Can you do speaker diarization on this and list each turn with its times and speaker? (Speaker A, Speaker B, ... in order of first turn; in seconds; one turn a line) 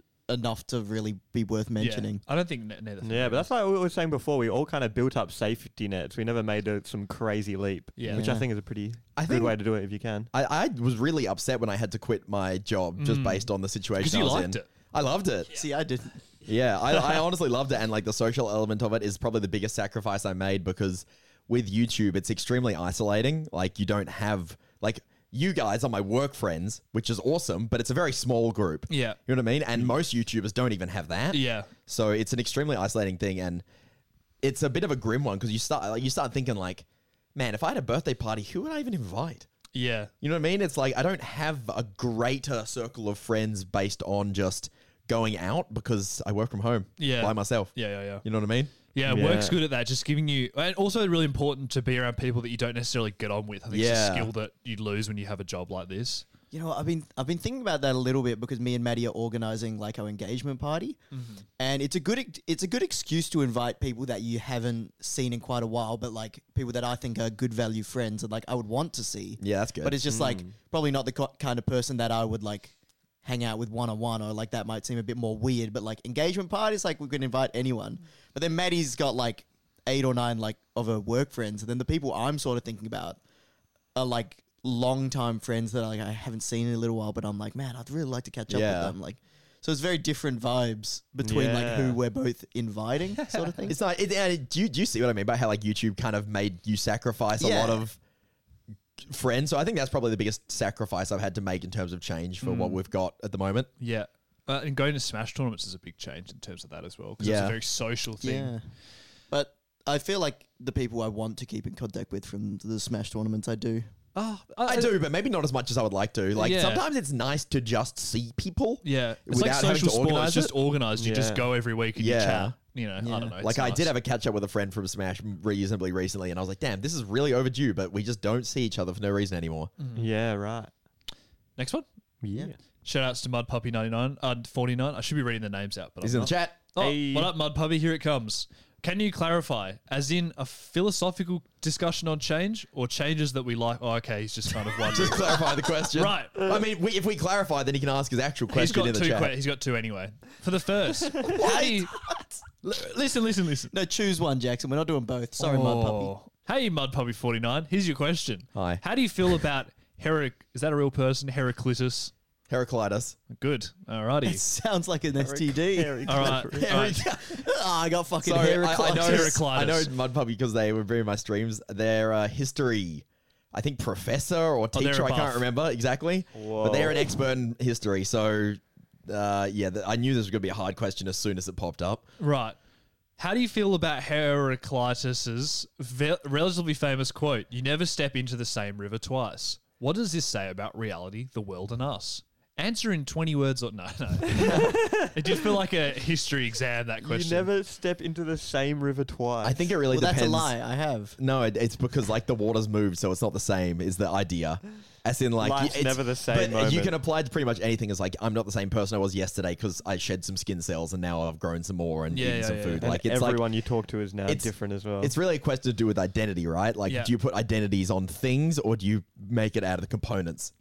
Speaker A: 0.3-2.2
Speaker B: 1.8-3.5
Speaker C: 3.0-10.3
Speaker B: 8.0-8.3
Speaker A: 8.1-8.5
Speaker D: 9.2-9.6
Speaker D: 10.3-15.5
Speaker B: 13.0-14.7
Speaker A: 15.5-16.2
Speaker D: 16.4-33.6
Speaker B: 28.9-29.2
Speaker B: 31.3-31.7
Speaker D: 34.4-39.5
Speaker B: 39.7-40.1
Speaker D: 40.2-48.7
Speaker B: 47.0-48.2
Speaker B: 48.9-56.2
Speaker C: 49.0-49.6
Speaker D: 53.7-54.3
Speaker A: 56.5-61.0
Speaker B: 61.1-61.4
Speaker A: 61.6-83.2
Speaker D: 69.4-70.0
Speaker C: 70.1-70.5
Speaker A: 83.9-93.8
Speaker D: 88.5-88.9
Speaker C: 91.2-92.0
Speaker D: 93.7-98.0
Speaker A: 97.4-97.8
Speaker D: 99.0-103.7
Speaker B: 102.4-102.8
Speaker B: 103.8-108.5
Speaker D: 107.2-107.6
Speaker A: 108.2-108.6
Speaker A: 109.3-113.9
Speaker B: 114.1-114.9
Speaker D: 114.6-120.5
Speaker B: 116.3-116.8
Speaker B: 118.8-123.9
Speaker C: 121.0-121.5
Speaker D: 122.0-122.6
Speaker A: 123.0-123.3
Speaker D: 123.4-129.7
Speaker B: 129.8-130.1
Speaker C: 129.9-130.7
Speaker B: 131.6-131.8
Speaker C: 132.2-132.6
Speaker B: 132.8-146.5
Speaker D: 136.0-136.6
Speaker C: 136.8-137.3
Speaker D: 144.9-149.3
Speaker B: 148.5-151.9
Speaker A: 151.2-152.4
Speaker B: 152.7-153.7
Speaker A: 153.7-156.1
Speaker B: 155.4-162.1
Speaker D: 158.5-158.8
Speaker D: 162.5-163.2
Speaker B: 163.3-164.4
Speaker A: 164.2-166.5
Speaker C: 165.2-166.9
Speaker B: 166.0-167.0
Speaker D: 166.5-167.4
Speaker A: 167.3-169.5
Speaker D: 168.2-182.1
Speaker B: 168.9-169.9
Speaker B: 174.7-175.4
Speaker C: 176.3-177.1
Speaker B: 182.2-182.6
Speaker B: 183.2-197.5
Speaker C: 194.4-195.4
Speaker C: 197.0-199.7
Speaker D: 199.4-200.5
Speaker A: 199.9-201.2
Speaker D: 201.2-213.4
Speaker C: 205.4-206.9
Speaker B: 212.1-212.9
Speaker C: 212.8-215.1
Speaker D: 214.2-220.5